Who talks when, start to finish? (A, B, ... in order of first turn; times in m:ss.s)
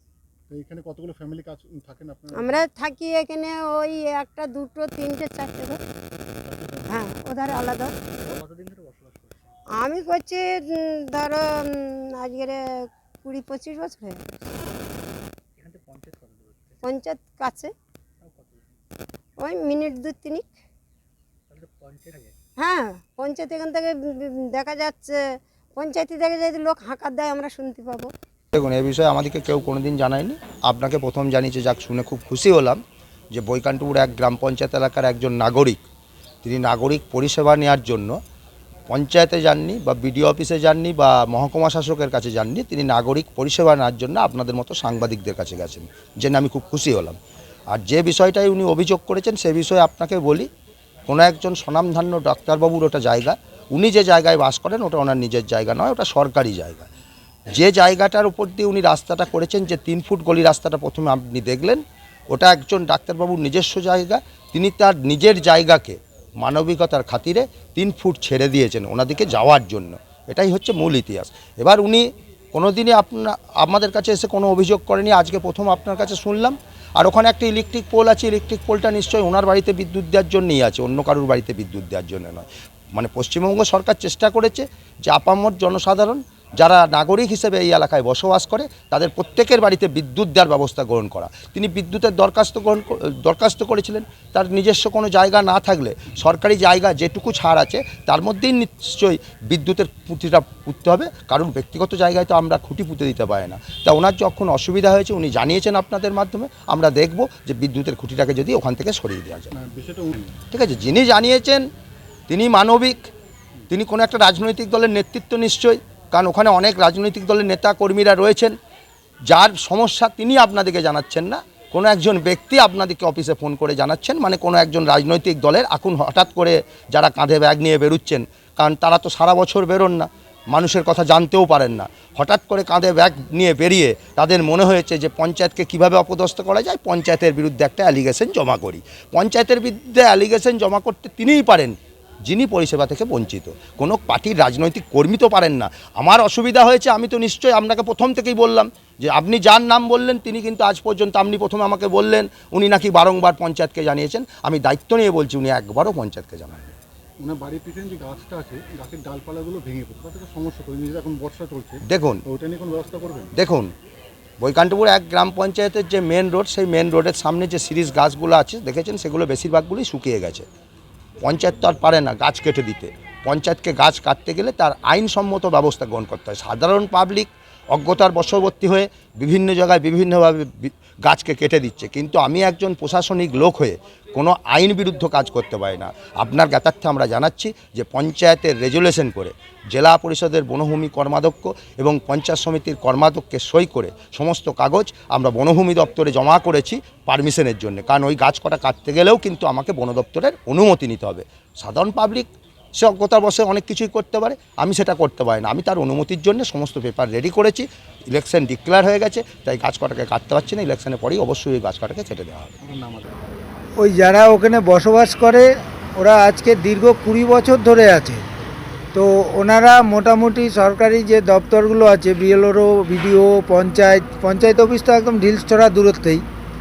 0:00.5-0:02.6 A
0:02.4-0:05.8 B
0:06.4-0:07.1 A
0:06.9-0:07.9 B
0:08.2-0:09.3 A
0:09.7-0:12.6 B
0:13.2-0:14.2 B
0:16.8-0:17.7 B
0:19.4-0:20.5 B
0:22.6-0:25.2 B
0:25.8-0:28.1 B
0:28.5-0:32.8 C
0:33.4-0:35.8 C
0:36.4-0:38.2 C
0:38.9-0:47.2 C
0:47.8-0:50.5 C
0:51.1-0:56.9 C
0:57.5-1:49.5 C
1:49.5-1:50.4 A
1:50.5-1:51.6 C
1:52.3-1:53.1 C
1:53.7-1:58.6 C
1:59.3-2:21.7 C
2:22.3-2:36.8 C
2:37.2-2:43.3 A
2:41.9-2:42.2 C
2:43.4-2:43.7 C
2:44.4-2:50.5 C
2:51.2-3:32.5 C
3:32.6-3:33.1 A
3:33.8-3:35.4 D
3:36.0-3:38.2 D
3:39.0-3:46.2 D